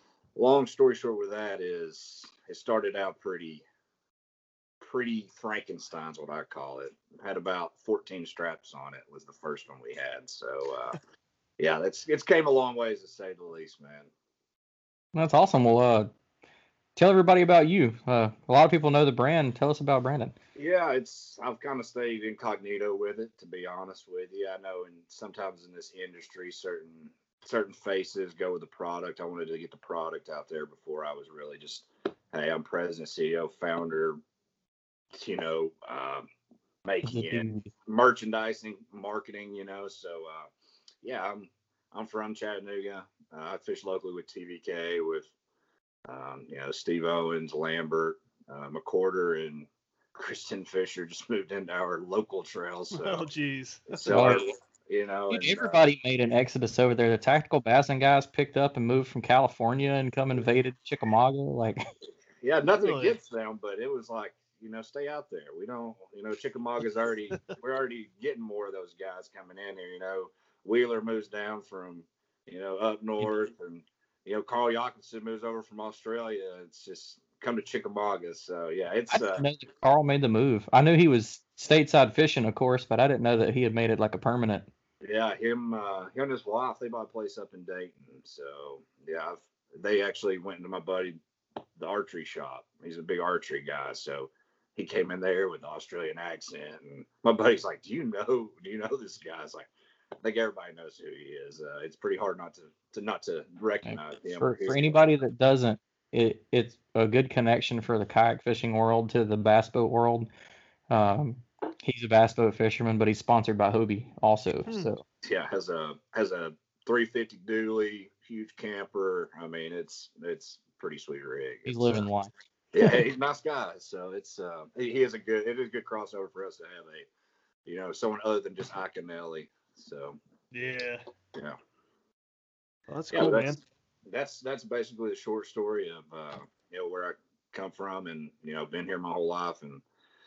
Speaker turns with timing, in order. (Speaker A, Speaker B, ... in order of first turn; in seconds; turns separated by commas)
Speaker A: 0.4-3.6, Speaker A: 4.8-11.0, Speaker A: 11.6-14.1, Speaker B: 15.1-16.1, Speaker B: 17.0-20.4, Speaker A: 20.6-34.2, Speaker A: 35.1-36.3, Speaker A: 36.9-40.5, Speaker B: 37.0-37.7, Speaker A: 41.0-45.3, Speaker A: 46.1-53.3, Speaker C: 52.9-54.3, Speaker A: 53.9-55.8, Speaker B: 54.0-54.4, Speaker B: 55.3-61.8, Speaker A: 62.4-79.5, Speaker C: 62.8-63.2, Speaker B: 79.1-84.7, Speaker A: 85.0-91.2, Speaker A: 91.8-99.7, Speaker A: 100.2-105.0, Speaker B: 103.9-110.3, Speaker B: 110.9-115.0, Speaker A: 115.2-122.0, Speaker B: 121.7-122.3, Speaker A: 122.7-127.1, Speaker A: 127.7-130.2, Speaker C: 130.5-131.0, Speaker C: 132.9-133.6, Speaker A: 133.1-139.8